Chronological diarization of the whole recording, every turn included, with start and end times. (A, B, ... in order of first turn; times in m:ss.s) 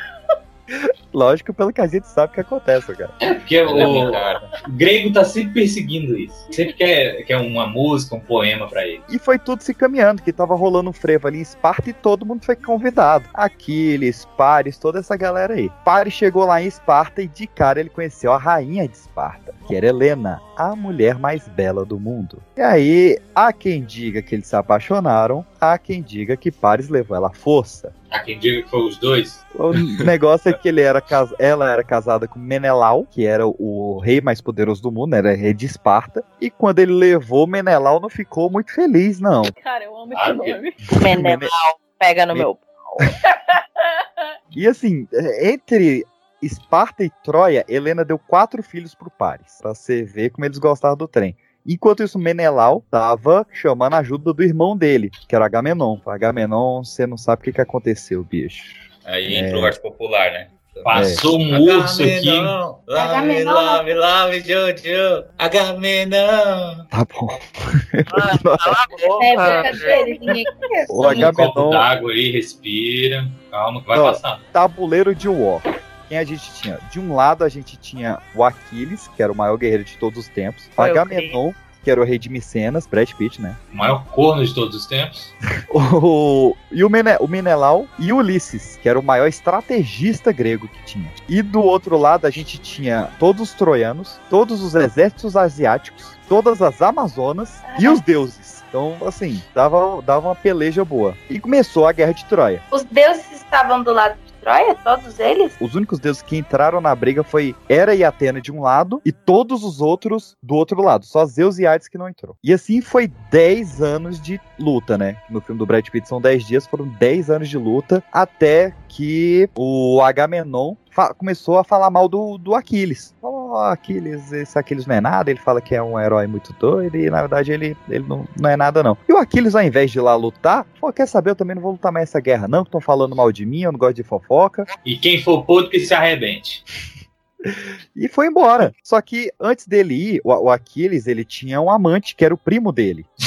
0:00.7-0:03.1 A
0:03.2-0:09.0 B
0:03.6-0:04.5 C
0:09.1-0:27.9 A
0:28.1-0:29.4 B
0:29.5-0:39.5 A
0:39.5-0:40.8 D
0:40.1-0:40.6 B
0:41.0-0:41.5 A
0:41.0-0:43.1 E
0:43.2-0:44.2 D
0:44.5-0:59.8 A
0:59.0-1:06.8 C
1:00.8-1:02.6 B
1:00.9-1:01.2 A
1:03.0-1:03.8 F
1:06.9-1:08.8 A
1:08.1-1:10.1 E
1:09.2-1:11.3 F
1:10.9-1:11.8 A
1:11.0-1:14.4 B
1:13.9-1:23.6 A
1:20.8-1:21.4 E
1:23.7-1:25.3 B
1:25.7-1:42.6 A
1:37.6-1:38.0 F
1:42.7-1:45.6 F
1:45.6-2:14.7 A
2:14.8-2:16.6 B
2:17.4-2:23.1 A